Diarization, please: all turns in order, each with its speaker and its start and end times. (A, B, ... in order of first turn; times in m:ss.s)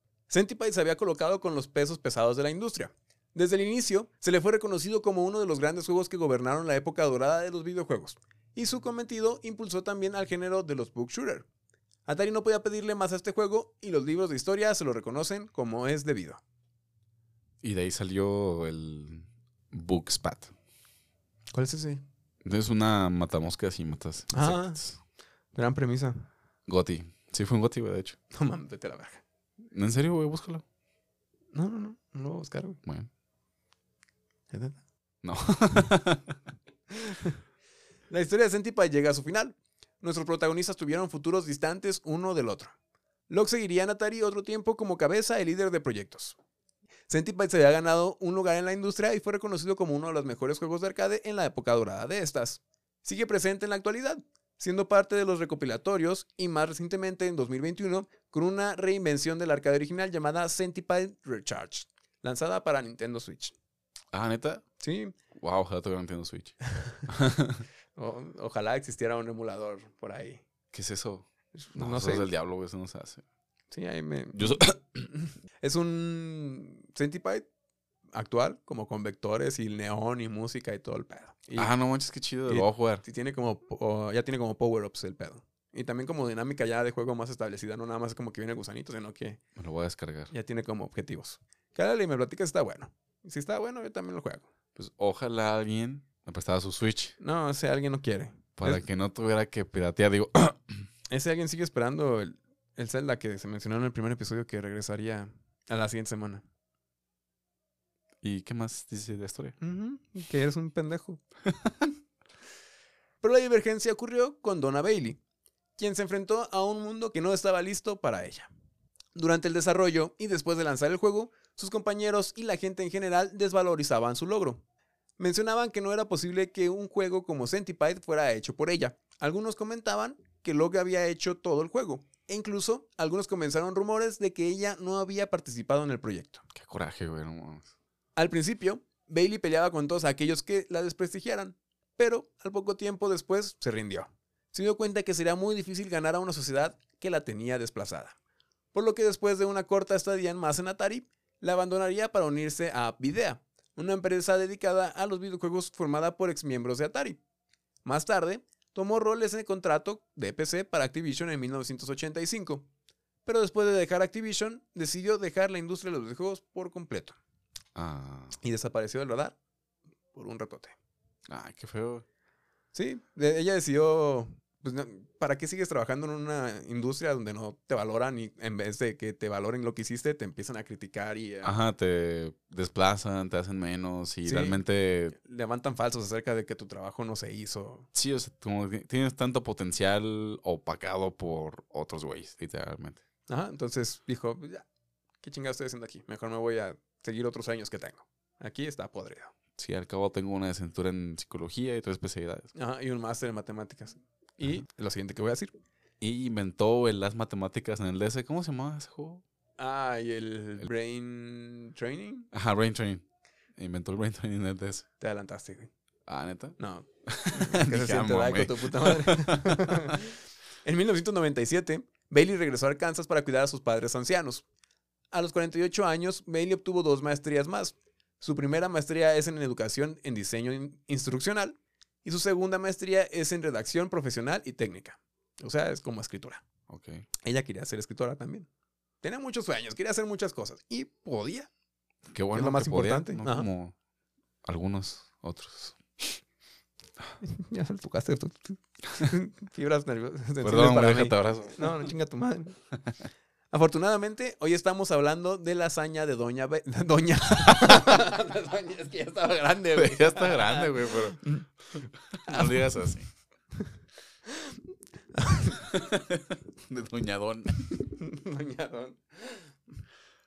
0:00.3-0:11.5 A
0:12.1-0:16.4 A
0:17.6-0:20.5 B
0:21.5-0:22.0 A
0:22.4-0:25.0 B
0:24.3-0:24.8 A
0:25.5-0:26.3 A
0:26.7-0:28.2 B
0:28.3-0:29.2 A
0:29.7-0:30.6 B
0:31.5-0:32.8 A
0:32.8-0:33.1 B
0:34.5-0:34.8 A
0:35.2-0:36.4 B
0:36.9-0:37.4 A
0:38.1-0:42.7 A
0:43.3-0:46.4 A
0:47.1-1:03.6 A
1:04.1-1:04.6 B
1:04.8-1:05.2 A
1:05.3-1:07.7 B
1:06.7-1:07.0 A
1:08.0-1:10.4 A
1:10.7-1:13.2 B
1:11.5-1:12.3 A
1:13.7-1:17.5 A
1:14.4-1:14.8 B
1:18.1-1:21.7 A
1:21.6-1:23.0 B
1:22.5-1:29.4 A
1:29.6-1:30.3 B
1:30.3-1:34.5 A
1:34.8-1:37.2 B
1:37.2-1:38.8 A
1:38.6-1:40.9 B
1:41.1-1:46.4 A
1:48.2-1:49.6 B
1:49.6-1:51.2 A
1:53.2-1:55.2 A
1:55.8-1:58.5 A
1:59.2-2:04.6 A
2:05.2-2:16.4 A
2:16.5-2:17.7 B
2:18.2-2:28.2 A
2:28.7-2:37.2 A
2:37.8-2:42.7 A
2:43.3-2:47.2 A
2:47.8-2:48.4 B
2:48.4-2:49.4 A
2:50.1-2:50.8 A
2:51.3-2:52.0 B
2:52.7-3:01.6 A
3:01.4-3:05.2 B
3:04.2-3:04.6 A
3:05.2-3:07.9 A
3:07.9-3:13.0 B
3:13.3-3:14.7 A
3:15.2-3:19.3 A
3:19.6-3:22.5 B
3:22.6-3:25.6 A
3:26.0-3:29.2 B
3:29.6-3:32.3 A
3:32.3-3:33.0 B
3:33.6-3:34.9 B
3:35.0-3:35.7 A
3:36.1-3:40.0 B
3:36.6-3:44.4 A
3:45.1-3:56.4 A
3:56.7-3:57.1 B
3:57.2-3:58.5 A
3:59.0-4:01.5 A
4:02.1-4:03.7 B
4:02.3-4:03.5 A
4:04.4-4:06.2 B
4:07.2-4:12.6 A
4:10.4-4:11.9 B
4:13.5-4:21.5 A
4:19.8-4:23.1 B
4:22.3-4:22.6 A
4:24.3-4:24.5 A
4:25.1-4:25.6 A
4:25.7-4:27.7 B
4:27.8-4:29.5 A